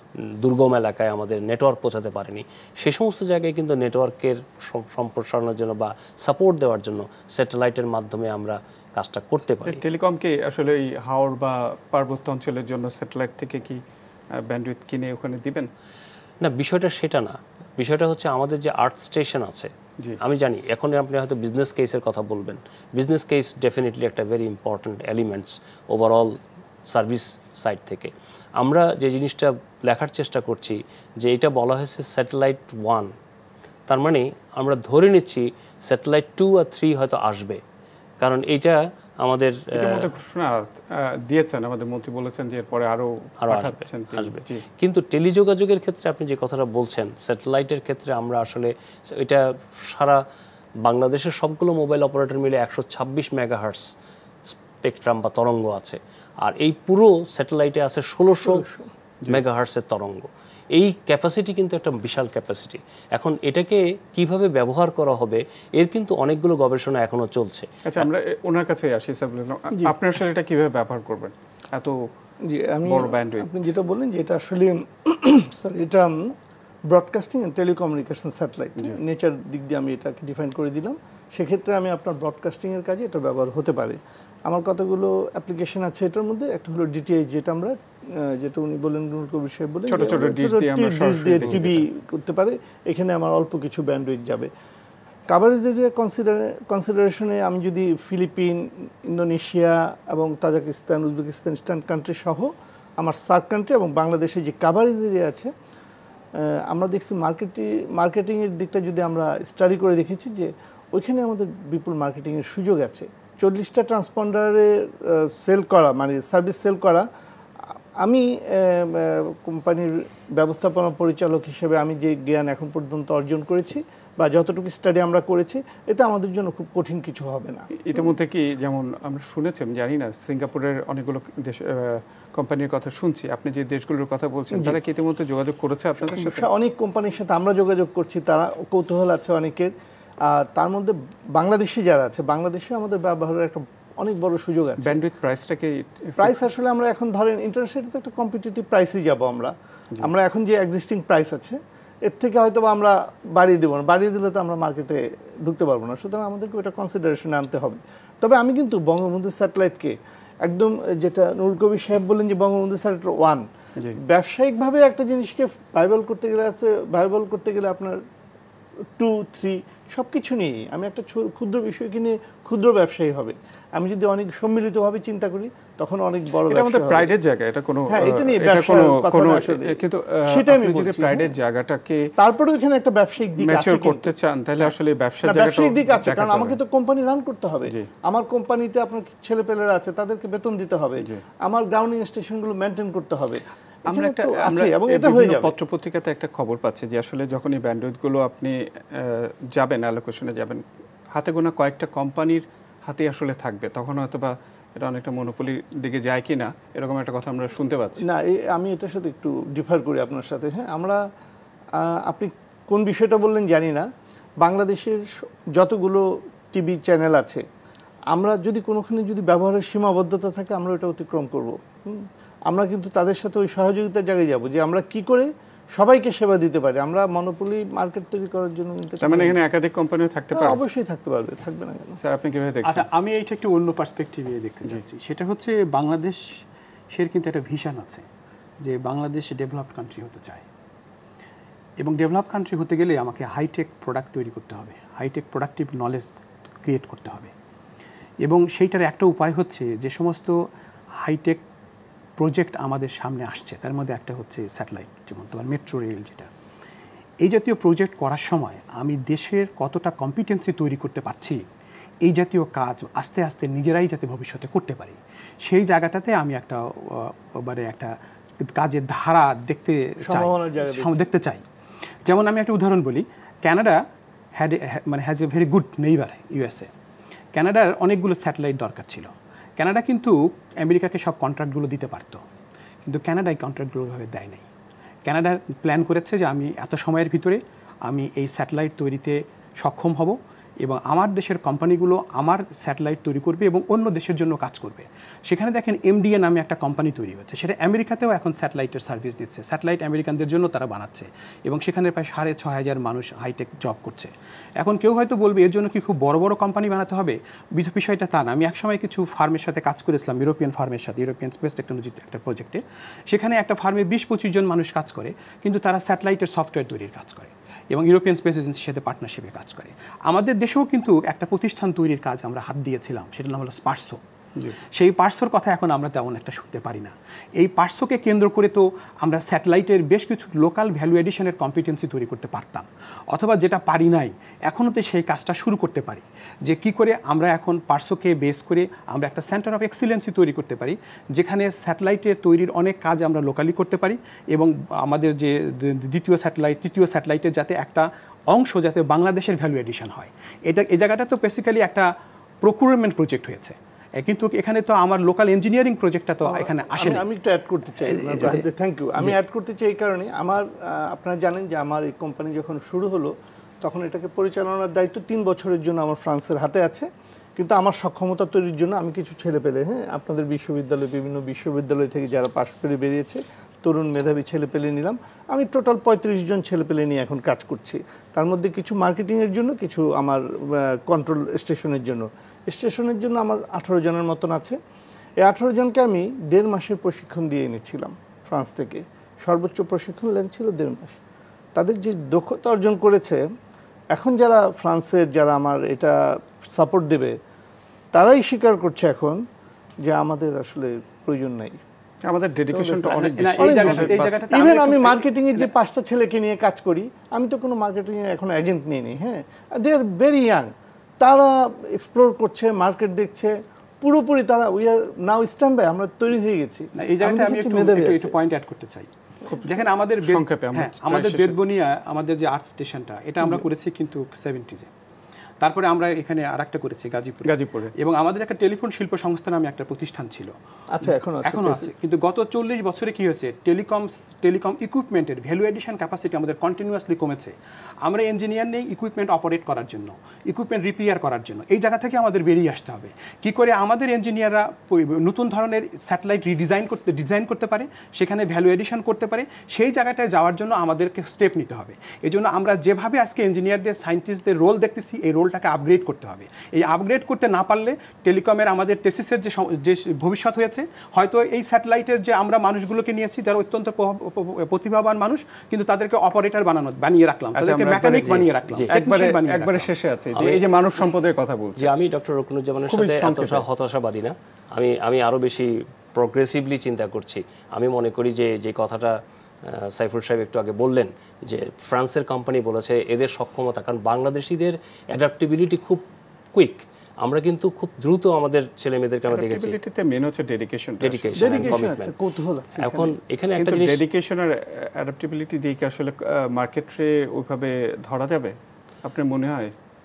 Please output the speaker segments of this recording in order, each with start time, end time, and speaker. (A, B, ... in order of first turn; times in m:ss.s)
0:00.2-0:09.8 A
0:09.6-0:13.8 B
0:14.3-0:15.7 B
0:16.4-0:33.1 A
0:33.9-0:37.6 A
0:38.2-0:40.1 A
0:39.7-0:44.6 B
0:43.4-0:50.2 A
0:50.8-0:53.9 A
0:54.5-0:58.6 A
0:58.4-0:58.9 C
0:59.3-1:08.0 A
1:07.8-1:12.0 B
1:12.5-1:16.3 C
1:12.8-1:13.7 B
1:16.9-1:34.5 C
1:29.9-1:31.8 B
1:35.3-1:45.5 C
1:46.4-1:57.0 C
1:58.0-2:07.7 C
2:07.7-2:16.5 B
2:14.5-2:14.8 C
2:16.0-2:19.7 C
2:20.2-2:25.0 C
2:24.8-2:26.4 B
2:26.2-2:43.4 C
2:44.0-2:48.0 C
2:49.0-2:57.1 C
2:56.5-3:02.1 B
2:57.9-3:01.3 C
3:02.2-3:04.7 C
3:03.4-3:06.6 B
3:05.2-3:15.5 C
3:13.9-3:28.0 B
3:28.0-3:31.0 C
3:31.7-3:33.9 C
3:34.4-3:37.4 C
3:38.1-3:49.4 C
3:49.0-3:50.6 B
3:50.3-3:52.0 C
3:52.0-3:52.9 B
3:52.6-3:58.0 D
3:58.6-4:00.4 D
4:01.8-4:07.3 D
4:08.2-4:10.4 D
4:11.0-4:11.4 D
4:12.2-4:16.3 D
4:17.2-4:21.4 D
4:22.0-4:31.4 D
4:30.0-4:31.0 C
4:32.0-4:33.8 D
4:34.4-4:36.7 D
4:37.3-4:42.2 D
4:42.8-4:44.4 D
4:45.0-5:24.0 D
5:24.7-5:51.9 D
5:52.4-5:57.0 D
5:56.2-6:24.6 C
5:57.8-5:58.4 D
6:25.2-6:31.0 C
6:31.6-6:33.2 C
6:33.9-6:37.2 C
6:37.9-6:39.2 C
6:39.8-6:41.6 C
6:42.0-6:44.2 B
6:42.5-6:58.1 C
6:42.9-6:45.5 D
6:56.8-6:58.9 D
6:59.3-7:01.4 B
6:59.4-7:04.7 D
7:05.4-7:49.7 D
7:07.2-7:07.7 B
7:10.7-7:11.8 C
7:47.4-7:51.7 B
7:50.2-7:50.4 A
7:51.6-8:09.6 A
7:52.7-7:53.4 B
8:09.1-8:11.7 B
8:10.8-8:11.9 A
8:11.2-8:13.0 C
8:12.6-8:13.8 A
8:13.3-8:19.5 B